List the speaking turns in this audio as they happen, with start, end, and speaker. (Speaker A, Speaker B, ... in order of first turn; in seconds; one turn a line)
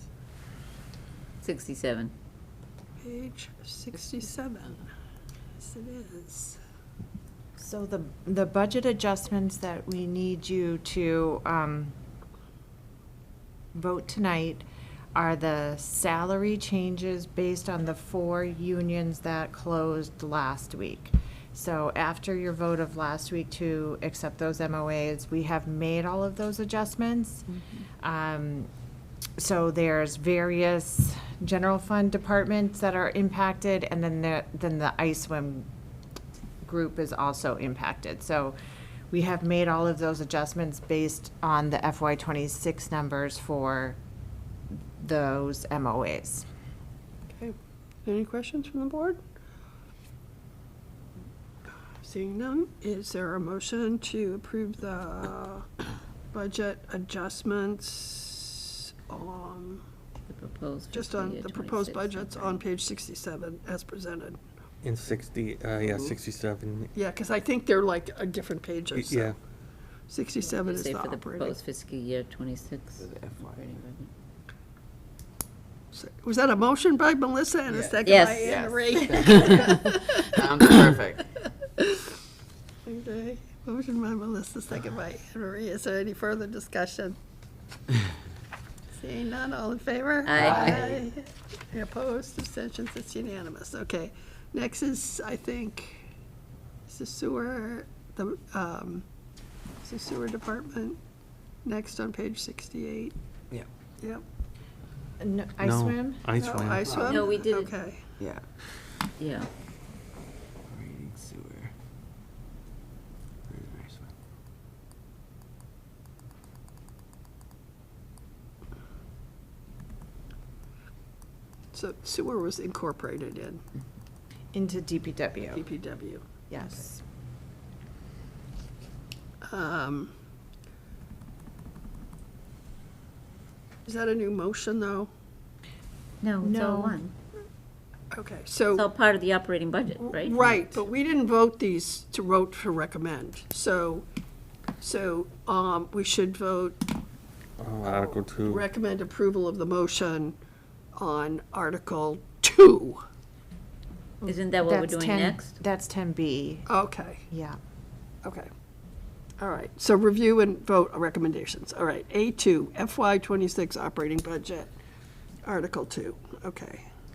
Speaker A: 1.4-2.1
Speaker B: 3.0-4.9
Speaker B: 5.6-6.6
Speaker C: 7.6-11.9
Speaker C: 13.7-27.5
Speaker C: 28.0-28.7
Speaker C: 29.4-35.7
Speaker C: 36.6-38.6
Speaker C: 39.1-44.0
Speaker C: 45.0-46.5
Speaker B: 47.3-49.2
Speaker B: 52.0-55.7
Speaker B: 56.3-59.8
Speaker A: 60.3-62.6
Speaker B: 60.9-64.4
Speaker D: 64.8-66.9
Speaker B: 67.0-69.3
Speaker D: 68.9-69.4
Speaker B: 70.1-71.6
Speaker A: 70.4-74.1
Speaker E: 73.0-73.7
Speaker B: 75.9-80.9
Speaker E: 77.9-81.2
Speaker A: 78.0-78.6
Speaker B: 82.8-87.2
Speaker B: 88.9-96.1
Speaker A: 90.2-90.9
Speaker E: 90.4-91.0
Speaker B: 96.9-99.1
Speaker B: 99.8-101.0
Speaker B: 101.6-103.2
Speaker C: 105.2-106.2
Speaker D: 105.6-107.2
Speaker B: 106.4-108.1
Speaker A: 107.1-107.8
Speaker E: 108.2-108.5
Speaker A: 109.2-109.5
Speaker E: 110.7-111.7
Speaker E: 113.5-114.1
Speaker B: 121.7-123.6
Speaker C: 124.5-125.7
Speaker B: 125.5-126.3
Speaker C: 126.5-127.0
Speaker B: 129.4-130.1
Speaker B: 133.9-135.1
Speaker A: 136.2-137.1
Speaker C: 136.4-137.0
Speaker B: 138.1-138.9
Speaker A: 138.7-140.8
Speaker B: 140.0-144.1
Speaker B: 144.8-146.8
Speaker D: 147.6-148.7
Speaker B: 147.8-150.4
Speaker B: 150.9-153.0
Speaker C: 154.2-156.7
Speaker A: 154.3-155.6
Speaker B: 156.7-157.2
Speaker C: 157.3-157.6
Speaker B: 158.2-158.5
Speaker B: 159.4-164.7
Speaker B: 165.4-166.9